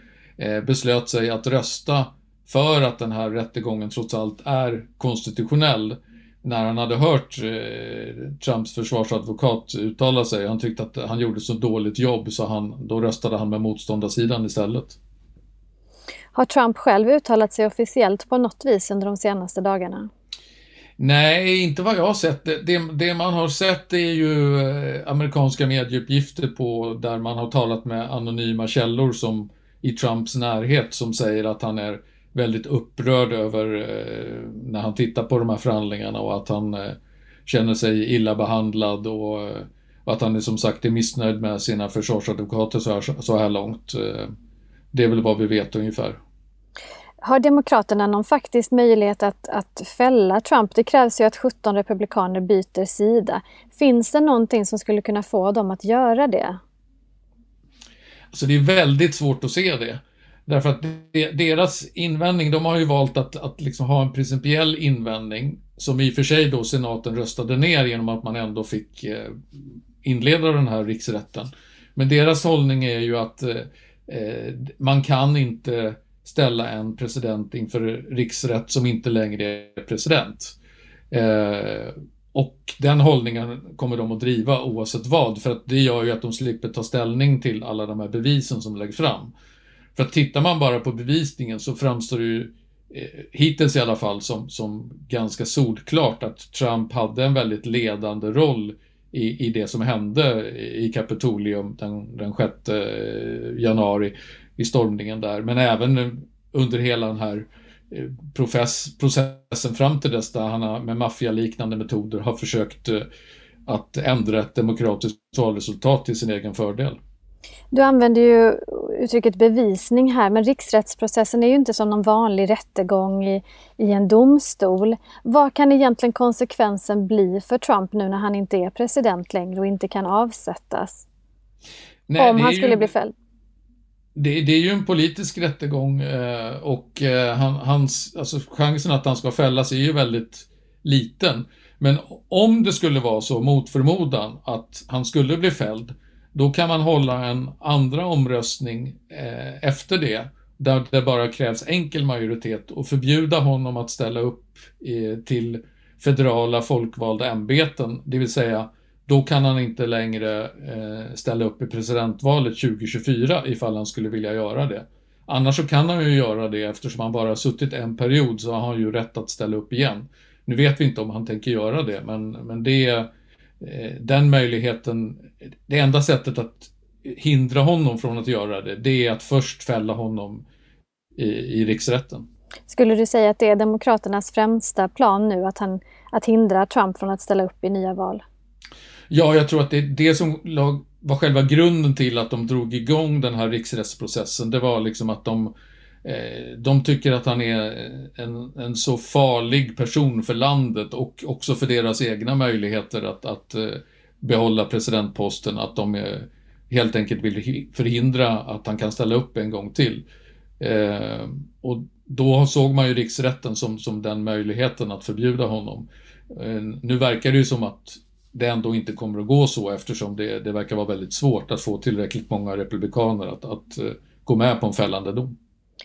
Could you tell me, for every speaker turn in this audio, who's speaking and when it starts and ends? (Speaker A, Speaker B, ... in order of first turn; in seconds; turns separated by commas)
Speaker A: 0.4-15.0, Speaker B: 16.3-20.1, Speaker A: 21.0-44.3, Speaker A: 44.9-46.2, Speaker B: 47.2-56.6, Speaker A: 58.3-80.6, Speaker A: 81.1-89.3, Speaker A: 90.0-113.1, Speaker A: 113.7-117.0, Speaker B: 117.7-131.1, Speaker A: 132.1-132.9, Speaker B: 132.2-133.2, Speaker A: 134.2-173.1, Speaker A: 173.6-180.5, Speaker A: 181.2-182.3, Speaker B: 182.7-188.2, Speaker A: 189.1-195.5, Speaker A: 196.0-210.1, Speaker A: 210.6-225.4